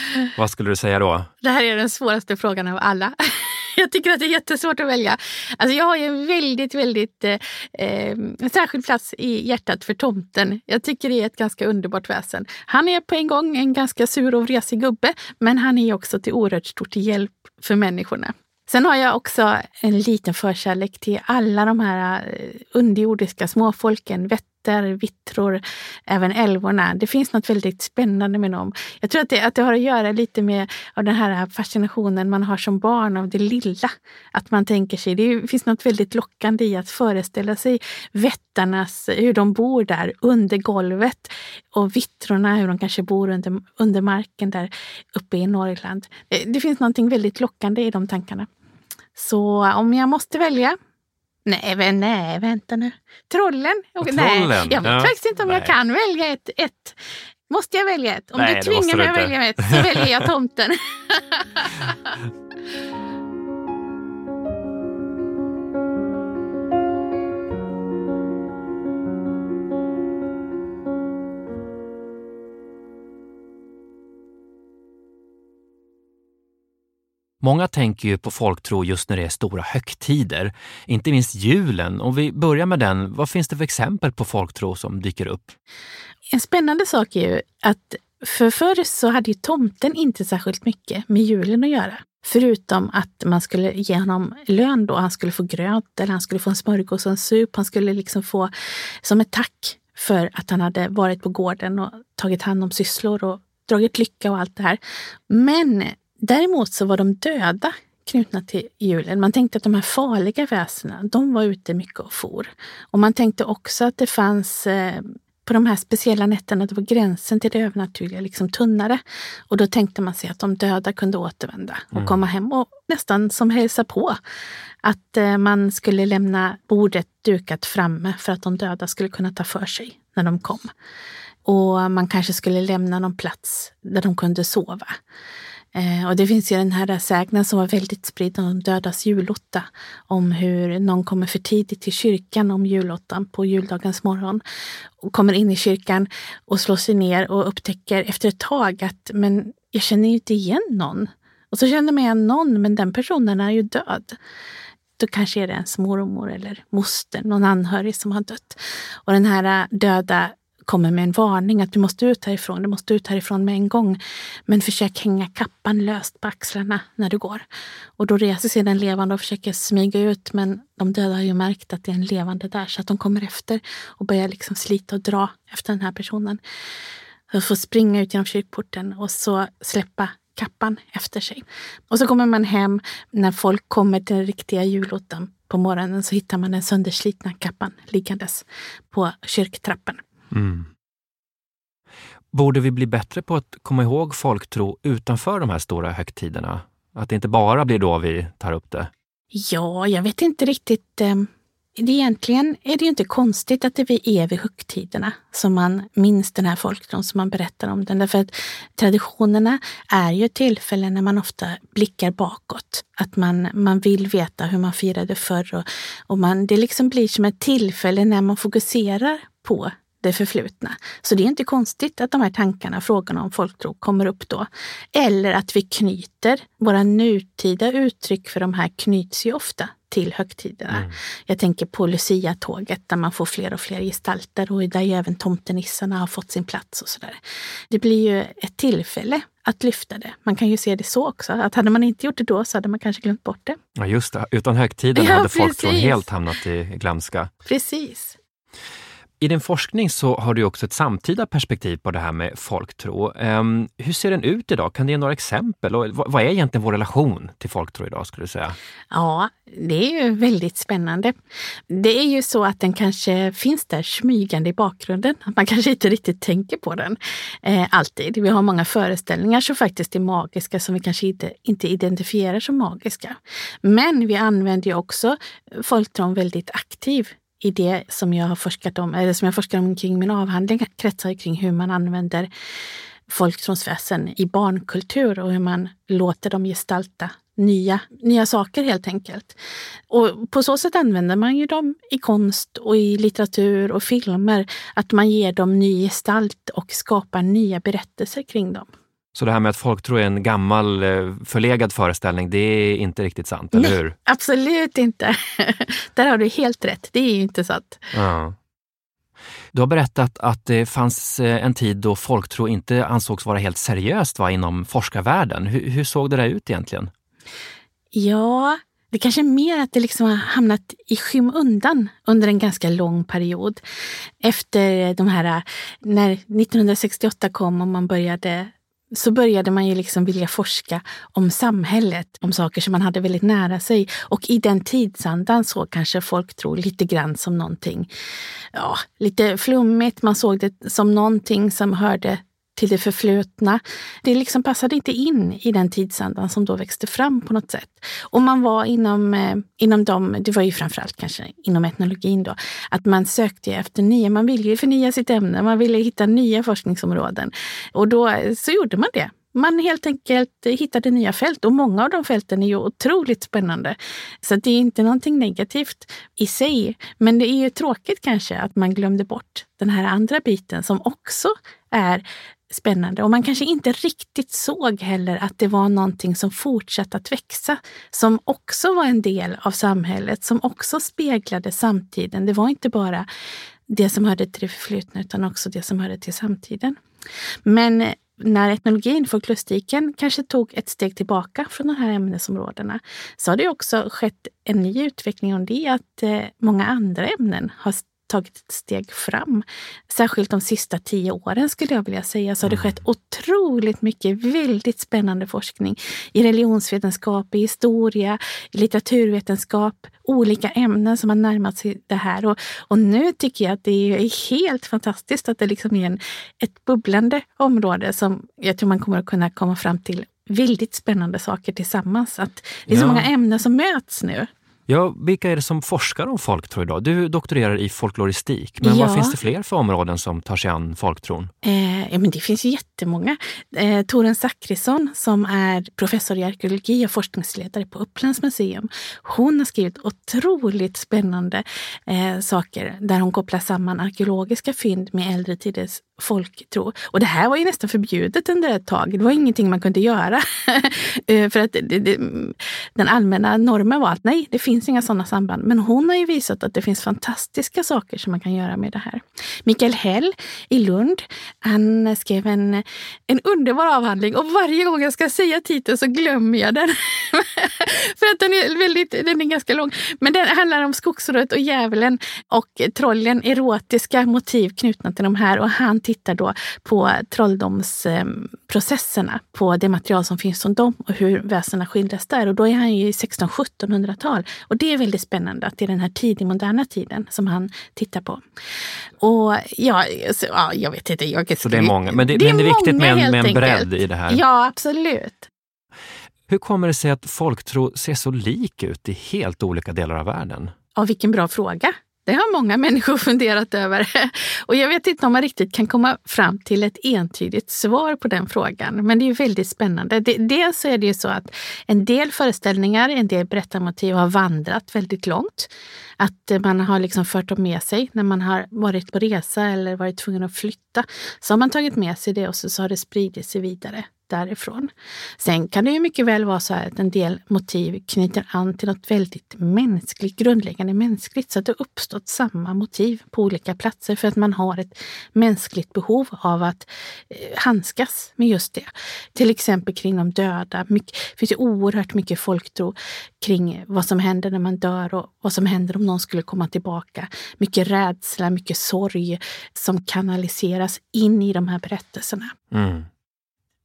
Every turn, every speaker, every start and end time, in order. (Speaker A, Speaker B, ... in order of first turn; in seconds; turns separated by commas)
Speaker A: 0.3-1.3, Speaker B: 1.4-48.5, Speaker B: 49.1-50.8, Speaker B: 51.5-57.0, Speaker A: 54.0-55.7, Speaker B: 57.5-61.9, Speaker A: 58.4-60.2, Speaker A: 77.4-85.5, Speaker B: 86.3-98.5, Speaker B: 99.0-124.2, Speaker A: 121.9-122.2, Speaker B: 124.8-130.7, Speaker B: 131.4-135.0, Speaker B: 135.7-144.4, Speaker B: 145.0-154.2, Speaker B: 155.0-167.4, Speaker B: 168.0-176.4, Speaker B: 177.3-190.0, Speaker A: 190.3-190.7, Speaker A: 192.3-198.9, Speaker B: 199.3-237.2, Speaker B: 237.7-243.6, Speaker A: 243.8-247.3, Speaker B: 244.9-246.1, Speaker B: 247.4-248.2, Speaker A: 249.2-258.6, Speaker B: 258.9-261.1, Speaker B: 261.7-282.3, Speaker B: 283.1-289.4, Speaker B: 289.9-298.7, Speaker A: 299.1-303.9, Speaker B: 303.5-307.9, Speaker A: 307.9-308.4, Speaker A: 309.5-316.9, Speaker B: 317.9-323.6, Speaker B: 324.2-337.9, Speaker B: 338.5-383.1, Speaker B: 383.7-386.8, Speaker B: 387.4-424.3, Speaker A: 402.4-402.8, Speaker A: 422.7-423.1, Speaker A: 424.7-431.3, Speaker B: 428.6-429.2, Speaker B: 431.4-488.2, Speaker B: 489.0-495.3, Speaker A: 491.4-494.2, Speaker A: 496.3-500.5, Speaker B: 500.7-552.3, Speaker A: 552.5-552.9